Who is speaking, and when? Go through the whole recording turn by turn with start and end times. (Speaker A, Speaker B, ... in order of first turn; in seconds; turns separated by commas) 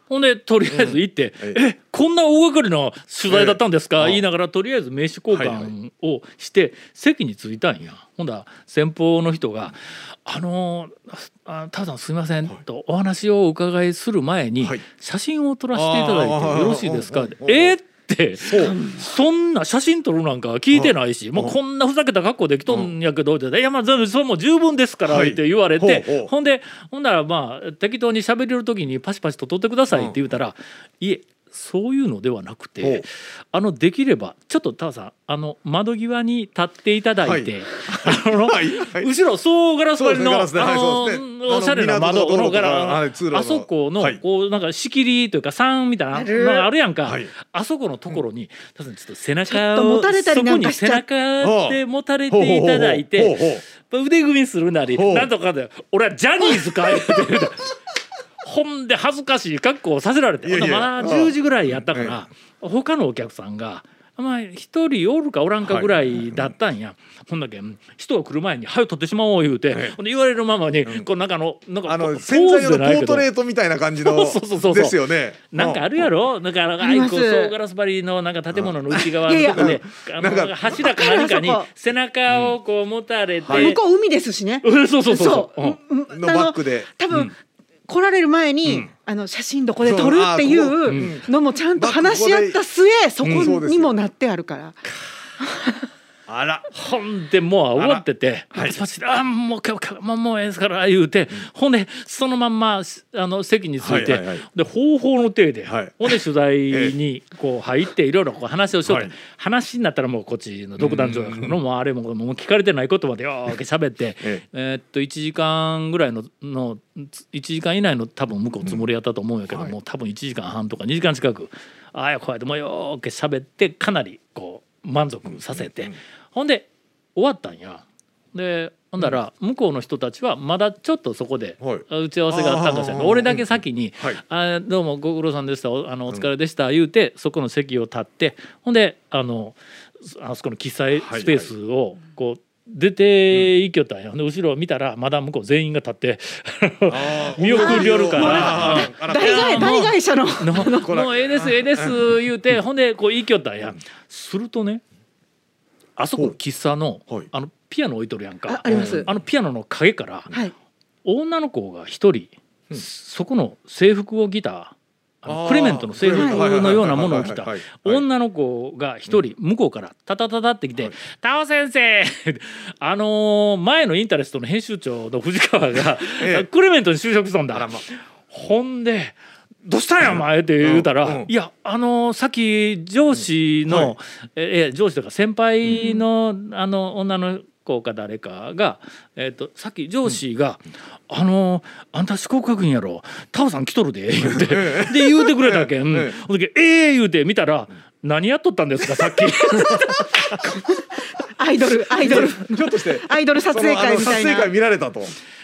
Speaker A: 0.1-57.8, Speaker B: 0.7-1.6, Speaker B: 3.3-4.2, Speaker B: 5.3-5.7, Speaker B: 15.7-17.7, Speaker B: 18.4-18.8, Speaker C: 18.6-19.0, Speaker B: 20.7-21.5, Speaker B: 25.1-26.3, Speaker B: 37.2-39.1, Speaker B: 40.0-44.2, Speaker C: 46.1-46.7, Speaker B: 47.0-47.3, Speaker C: 49.5-51.0, Speaker B: 51.4-53.6, Speaker B: 54.9-55.3, Speaker B: 56.9-57.5, Speaker A: 58.4-73.3, Speaker B: 60.4-62.2, Speaker B: 65.6-66.5, Speaker B: 69.7-70.0, Speaker B: 71.8-76.1, Speaker A: 74.0-83.8, Speaker C: 76.8-77.5, Speaker B: 78.5-80.7, Speaker C: 79.2-79.8, Speaker C: 80.7-81.7, Speaker B: 82.3-82.5, Speaker B: 83.4-83.8, Speaker C: 83.5-87.3, Speaker A: 84.6-85.8, Speaker B: 86.1-87.3, Speaker C: 87.9-94.8, Speaker B: 89.8-92.6, Speaker A: 90.8-91.1, Speaker A: 93.2-93.5, Speaker B: 93.3-93.9, Speaker C: 95.4-95.9, Speaker B: 96.3-96.7, Speaker A: 96.7-154.8, Speaker B: 97.7-98.8, Speaker B: 103.8-104.5, Speaker B: 105.7-106.2, Speaker B: 106.7-106.9, Speaker B: 108.8-109.1, Speaker B: 110.8-111.6, Speaker B: 119.5-119.7, Speaker B: 125.2-125.9, Speaker B: 131.6-134.2, Speaker B: 141.0-141.5, Speaker B: 146.9-149.8, Speaker C: 147.4-150.9, Speaker B: 150.5-152.0, Speaker A: 156.0-160.3, Speaker C: 158.5-159.1, Speaker B: 158.7-159.1, Speaker A: 161.0-200.0, Speaker B: 165.2-168.0, Speaker C: 166.1-166.4, Speaker B: 176.2-176.5, Speaker B: 177.5-177.8, Speaker B: 180.0-181.3, Speaker B: 183.1-183.9, Speaker B: 185.6-185.9, Speaker B: 194.2-196.2, Speaker B: 199.0-200.2, Speaker C: 200.0-204.5, Speaker B: 202.0-205.2